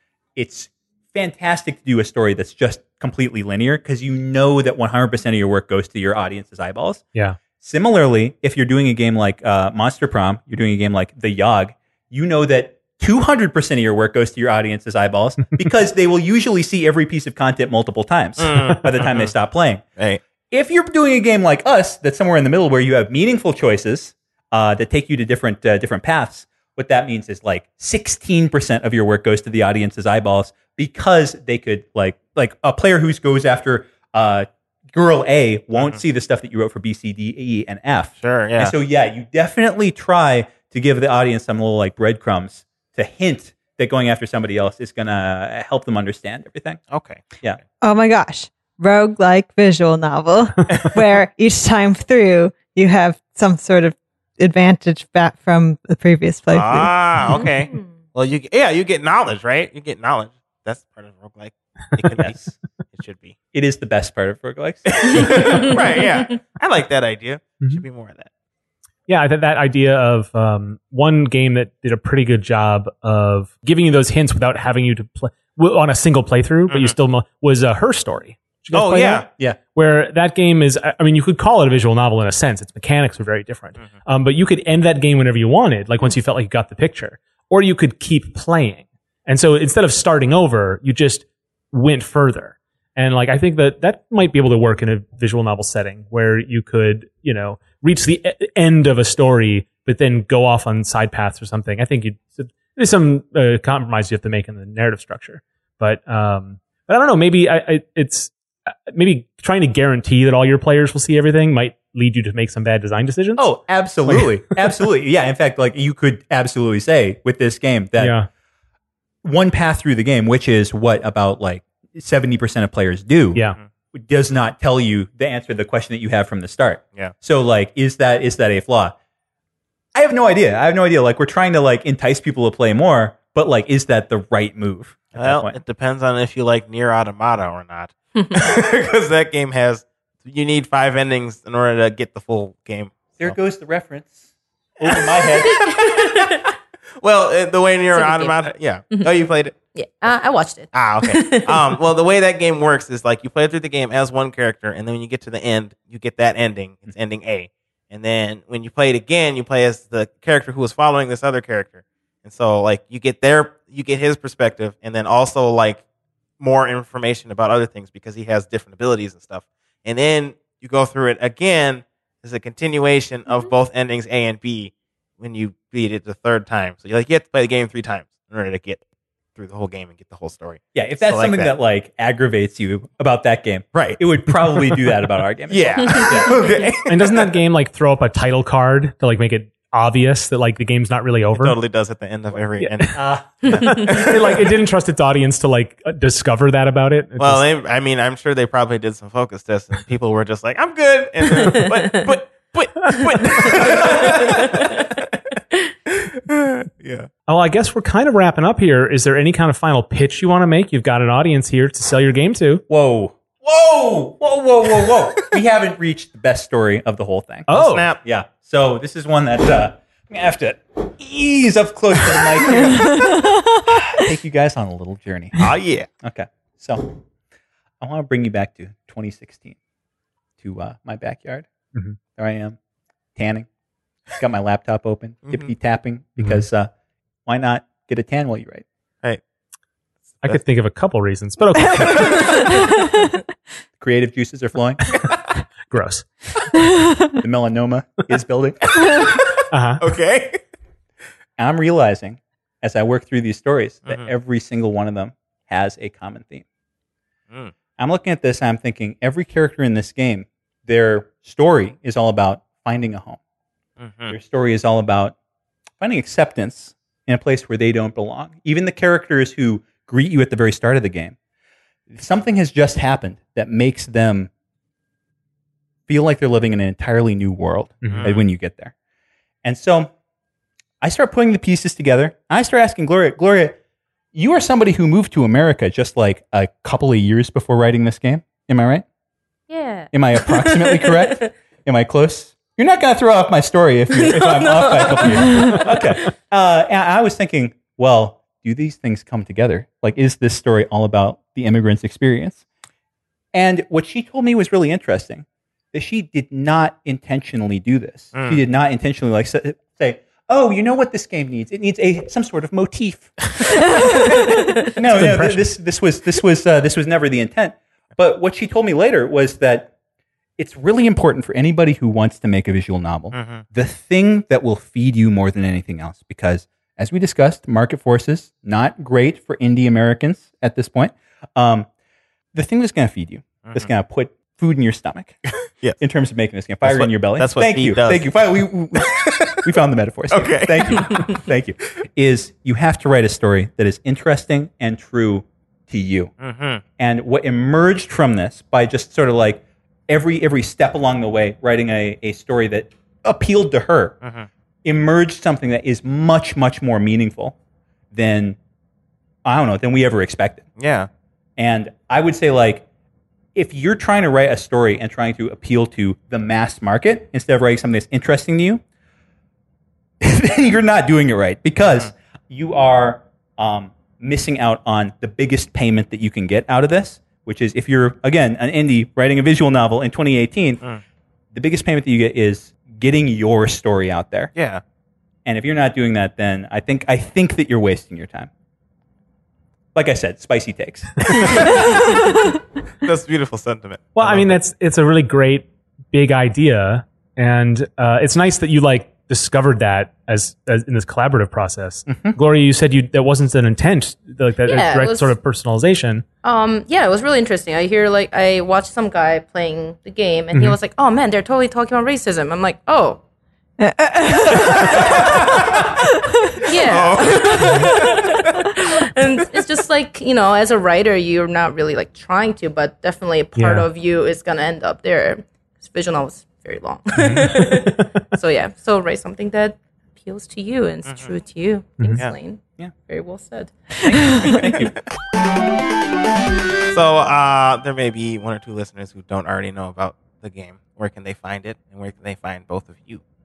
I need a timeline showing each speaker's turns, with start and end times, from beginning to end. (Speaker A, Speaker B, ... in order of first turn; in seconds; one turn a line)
Speaker A: 0.4-7.0
Speaker B: 7.2-7.4
Speaker A: 7.6-19.8
Speaker C: 18.4-19.3
Speaker A: 20.5-46.8
Speaker C: 38.2-38.8
Speaker C: 46.9-47.4
Speaker D: 47.8-57.2
Speaker C: 56.5-62.4
Speaker E: 57.3-57.9
Speaker A: 62.2-62.5
Speaker C: 62.9-63.4
Speaker A: 63.5-65.8
Speaker C: 64.9-68.3
Speaker B: 69.1-108.3
Speaker C: 76.7-77.0
Speaker C: 78.7-79.3
Speaker B: 108.9-113.5
Speaker A: 113.4-118.2
Speaker B: 118.0-118.3
Speaker A: 119.2-129.0
Speaker A: 129.9-135.6
Speaker C: 135.2-143.3
Speaker A: 143.2-145.8
Speaker E: 145.6-146.4
Speaker C: 147.0-149.6
Speaker E: 147.9-151.6
Speaker C: 150.7-165.8
Speaker C: 166.4-178.8
Speaker C: 179.4-181.6
Speaker A: 180.7-186.4
Speaker C: 185.5-187.3
Speaker B: 186.9-191.6
Speaker C: 191.4-194.5
Speaker B: 192.6-193.0
Speaker A: 192.9-193.8
Speaker B: 193.6-197.5
Speaker C: 197.2-205.2
Speaker A: 203.7-204.1
Speaker E: 204.3-204.7
Speaker C: 205.9-207.1
Speaker B: 207.3-212.6
Speaker A: 212.7-217.5
Speaker B: 217.5-217.9
Speaker C: 217.5-218.0
Speaker A: 218.0-223.1
Speaker D: 222.9-223.4
Speaker A: 223.7-225.4
Speaker C: 225.4-225.9
Speaker A: 226.0-227.0
Speaker A: 227.8-229.6
Speaker A: 230.4-231.5
Speaker A: 232.2-232.6
Speaker A: 233.2-233.5
Speaker A: 234.2-236.7
Speaker B: 236.2-236.4
Speaker A: 237.3-238.7
Speaker C: 240.1-240.4
Speaker B: 240.2-242.4
Speaker C: 241.8-242.4
Speaker D: 242.3-243.0
Speaker A: 243.8-245.0
Speaker B: 245.7-246.1
Speaker D: 246.6-247.2
Speaker A: 247.2-249.0
Speaker C: 249.0-250.4
Speaker B: 249.5-249.8
Speaker A: 251.4-256.4
Speaker A: 257.8-263.2
Speaker C: 263.8-264.1
Speaker A: 264.1-265.2
Speaker A: 265.8-271.2
Speaker A: 271.9-274.3
Speaker A: 275.9-278.7
Speaker B: 277.8-278.1
Speaker C: 277.9-278.3
Speaker A: 279.4-279.9
Speaker A: 280.8-283.6
Speaker A: 284.1-288.8
Speaker E: 289.5-291.3
Speaker A: 289.9-302.4
Speaker E: 293.9-295.6
Speaker A: 303.3-319.7
Speaker C: 308.1-308.4
Speaker D: 313.8-314.7
Speaker B: 315.0-315.4
Speaker A: 320.4-331.7
Speaker C: 323.1-323.4
Speaker A: 332.3-335.2
Speaker C: 335.5-335.8
Speaker A: 335.8-346.1
Speaker C: 336.6-338.2
Speaker C: 338.8-339.2
Speaker C: 340.1-341.2
Speaker C: 346.2-346.6
Speaker A: 346.8-354.0
Speaker C: 354.0-354.3
Speaker A: 354.6-357.4
Speaker A: 357.9-358.4
Speaker A: 359.2-360.5
Speaker C: 360.6-360.9
Speaker A: 361.4-362.7
Speaker A: 363.4-368.6
Speaker A: 370.0-380.6
Speaker A: 381.3-384.3
Speaker C: 384.4-384.6
Speaker A: 385.3-388.3
Speaker A: 389.8-391.8
Speaker C: 391.5-391.9
Speaker C: 392.8-394.4
Speaker B: 394.0-406.1
Speaker A: 401.9-402.2
Speaker E: 404.4-405.1
Speaker E: 406.2-413.0
Speaker D: 413.6-414.9
Speaker C: 414.3-415.7
Speaker D: 415.9-416.5
Speaker E: 416.4-433.5
Speaker C: 416.5-418.5
Speaker B: 423.4-423.7
Speaker A: 427.0-427.3
Speaker B: 427.1-427.7
Speaker C: 430.9-431.1
Speaker A: 433.8-434.8
Speaker C: 434.3-434.7
Speaker C: 436.7-443.0